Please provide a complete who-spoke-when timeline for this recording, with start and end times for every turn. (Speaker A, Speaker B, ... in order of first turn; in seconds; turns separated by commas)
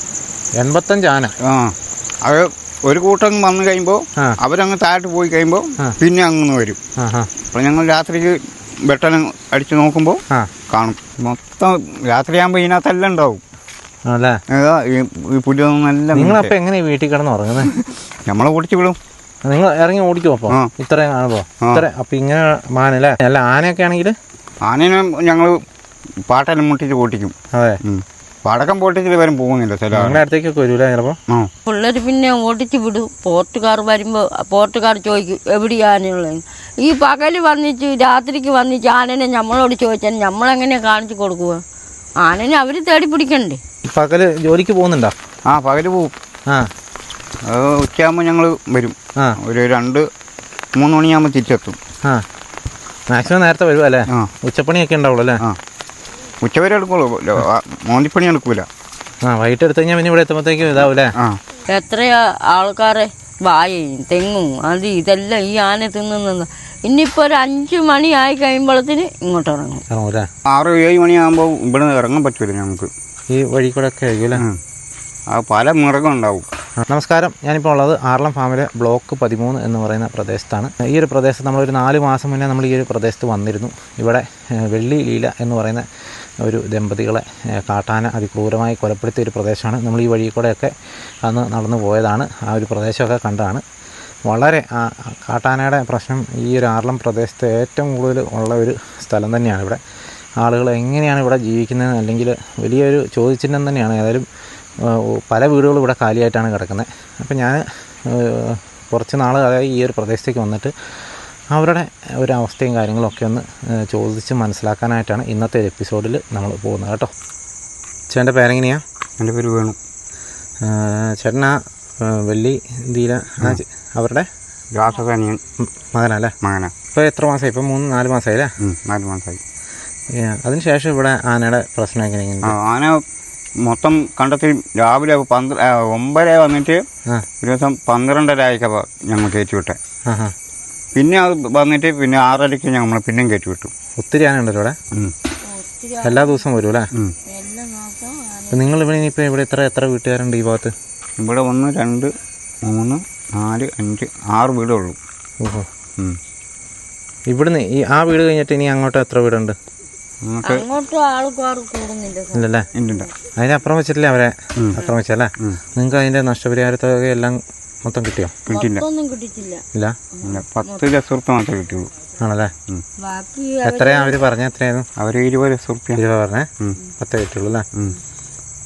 Speaker A: 0.6-1.4, Speaker B: 1.4-6.8, Speaker A: 7.0-7.3, Speaker B: 7.5-13.4, Speaker A: 14.1-14.4, Speaker B: 14.5-16.5, Speaker A: 16.1-17.7, Speaker B: 17.6-19.0, Speaker A: 19.4-24.2, Speaker B: 21.6-21.9, Speaker B: 24.6-25.6, Speaker B: 26.3-30.2, Speaker A: 27.5-27.8, Speaker A: 29.9-31.2, Speaker C: 31.7-41.6, Speaker C: 42.2-43.6, Speaker A: 43.9-45.1, Speaker B: 45.5-46.1, Speaker B: 47.5-50.1, Speaker B: 50.8-51.8, Speaker A: 53.1-55.4, Speaker B: 56.4-58.7, Speaker A: 59.2-61.1, Speaker B: 61.1-61.4, Speaker C: 61.7-69.8, Speaker A: 69.9-70.3, Speaker B: 70.5-72.9, Speaker A: 73.3-74.5, Speaker B: 75.3-76.5, Speaker A: 76.8-85.9, Speaker A: 86.4-93.6, Speaker A: 94.3-99.8, Speaker A: 100.4-104.3, Speaker A: 104.8-117.1, Speaker A: 118.1-118.8, Speaker B: 119.2-119.8, Speaker A: 120.6-124.3, Speaker B: 124.7-125.4, Speaker A: 125.6-126.3, Speaker B: 126.4-126.7, Speaker A: 126.9-128.5, Speaker B: 128.6-129.4, Speaker A: 130.1-132.6, Speaker B: 132.4-133.0, Speaker B: 133.6-136.8, Speaker B: 137.4-139.8, Speaker A: 140.1-140.3, Speaker B: 141.0-143.7, Speaker A: 144.0-144.8, Speaker C: 145.5-146.4, Speaker A: 146.0-146.9, Speaker C: 147.3-148.7, Speaker A: 148.5-150.7, Speaker B: 151.2-152.1, Speaker B: 152.6-155.0, Speaker A: 155.4-155.7, Speaker A: 157.3-159.6, Speaker B: 160.2-160.6, Speaker C: 160.4-162.5, Speaker A: 162.3-162.7, Speaker B: 162.7-163.1, Speaker A: 163.4-168.4, Speaker B: 168.5-168.8, Speaker C: 168.5-170.8, Speaker A: 169.7-170.0, Speaker B: 170.2-171.9, Speaker A: 172.2-172.5, Speaker C: 173.0-174.2, Speaker A: 173.6-174.9, Speaker B: 175.0-176.0, Speaker A: 176.0-177.7